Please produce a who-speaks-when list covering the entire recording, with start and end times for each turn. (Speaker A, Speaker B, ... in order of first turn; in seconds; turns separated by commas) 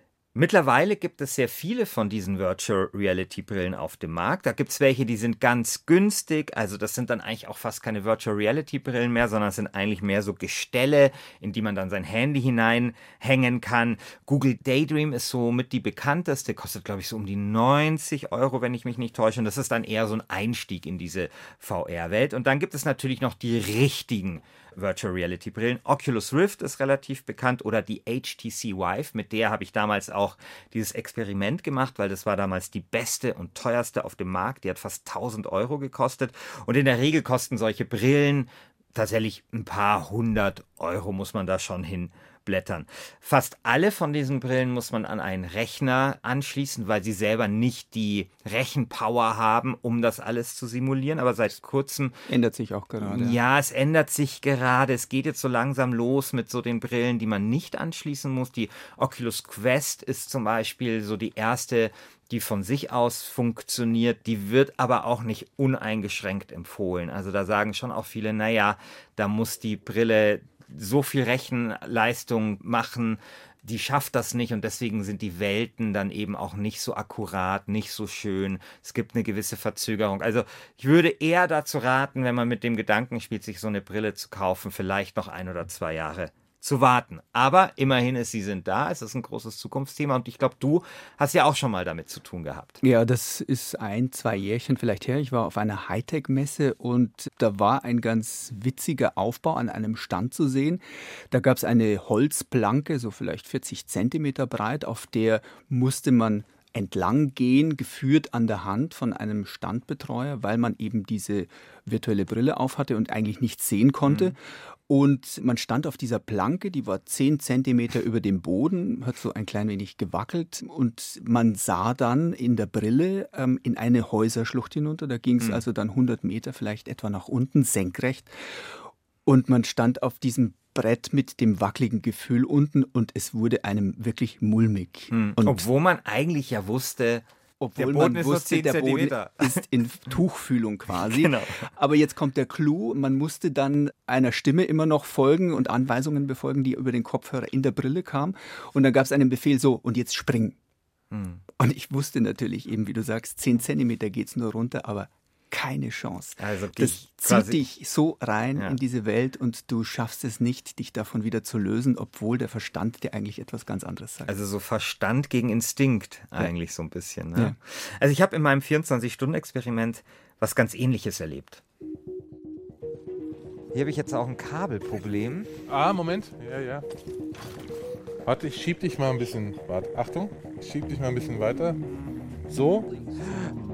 Speaker A: 0.3-52.1, Speaker B: 52.3-53.4, Speaker A: 53.0-92.8, Speaker B: 92.8-135.6, Speaker A: 135.1-139.6, Speaker B: 137.6-150.6, Speaker A: 140.9-141.7, Speaker A: 151.1-151.4, Speaker B: 151.6-164.3, Speaker A: 156.4-157.6, Speaker A: 164.3-171.6, Speaker A: 173.7-175.5, Speaker C: 175.7-176.8, Speaker C: 178.2-181.8, Speaker C: 182.5-183.0